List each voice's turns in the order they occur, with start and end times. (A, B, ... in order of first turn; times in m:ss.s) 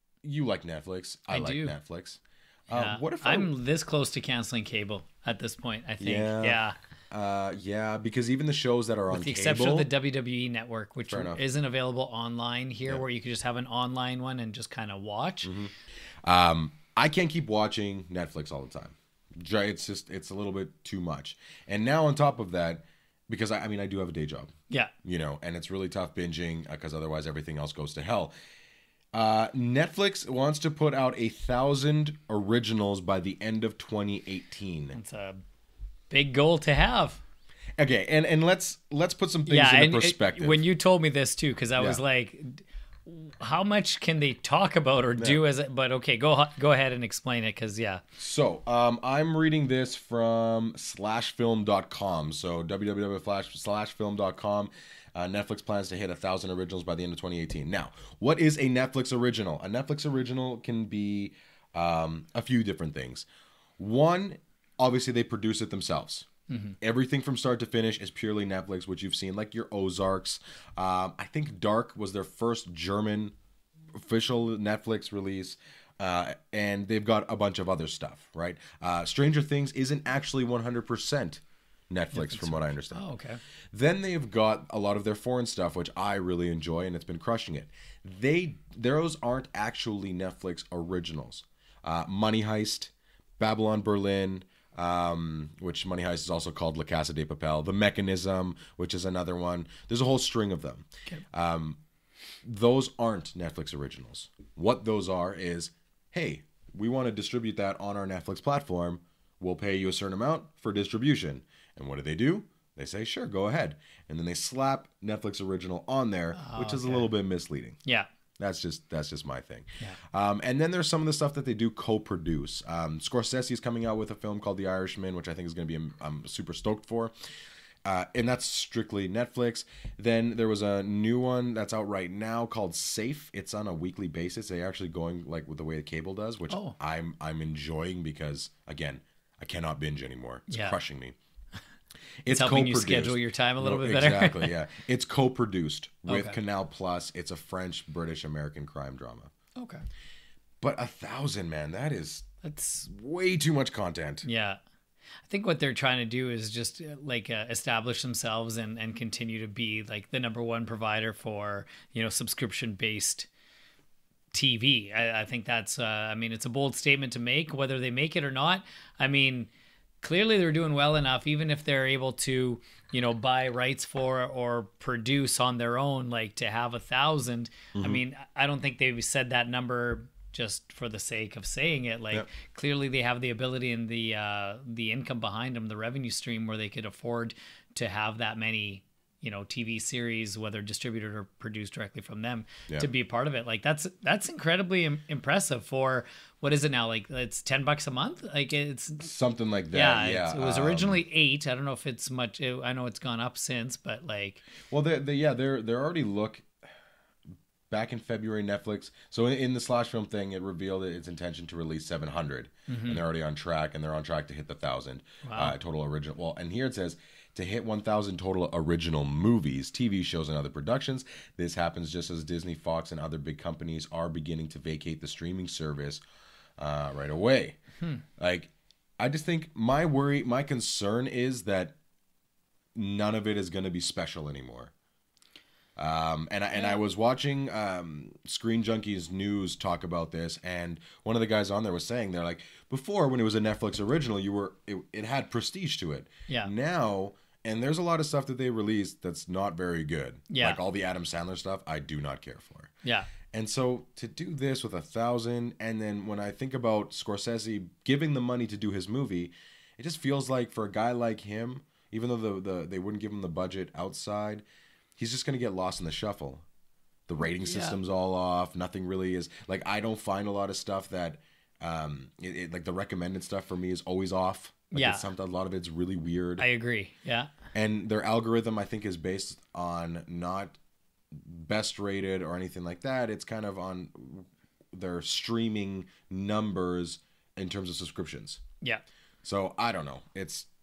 0:00.2-0:03.5 A
0:01.3-0:01.7 B
0:02.7-0:06.8 B
0:06.0-0:06.6 A
0:07.1-0:09.9 A
0:09.1-0:15.5 B
0:11.1-0:11.4 A
0:15.4-0:15.7 A
0:16.2-0:24.5 A
0:25.0-0:28.3 A
0:29.1-0:35.0 A
0:34.9-0:35.4 B
0:36.1-0:37.2 B
0:37.8-0:40.6 A
0:39.4-0:48.0 B
0:48.2-1:03.2 A
1:03.8-1:06.3 A
1:06.5-1:06.8 B
1:06.8-1:13.3 A
1:13.9-1:23.0 A
1:22.1-1:23.4 B
1:23.7-1:41.8 A
1:42.4-1:57.8 A
1:56.3-1:57.1 B
1:58.4-2:07.1 A
2:07.8-2:21.2 A
2:16.5-2:16.8 B
2:20.5-2:20.8 B
2:22.2-2:29.3 A
2:22.3-2:24.5 B
2:26.1-2:26.4 B
2:29.6-2:29.8 B
2:30.6-2:32.2 A
2:32.4-2:32.9 B
2:32.8-2:34.2 A
2:34.2-2:34.6 B
2:35.2-2:43.3 B
2:44.3-2:49.5 B
2:50.0-3:19.1 B
2:57.7-2:58.0 A
3:19.0-3:21.0 A
3:19.7-3:24.4 B
3:24.7-3:26.5 A
3:27.7-3:46.0 A
3:32.7-3:33.0 B
3:35.2-3:35.5 B
3:46.6-3:47.6 A
3:48.2-3:51.7 A
3:52.7-3:54.7 A
3:55.8-4:12.7 A
4:10.3-4:10.6 B
4:12.8-4:13.1 B
4:13.3-4:24.4 A
4:25.0-4:26.4 A
4:27.1-4:36.5 A
4:27.2-4:27.8 B
4:34.7-4:35.1 B
4:36.4-4:37.3 B
4:37.5-4:40.6 A
4:41.1-4:48.4 A
4:49.2-4:50.5 A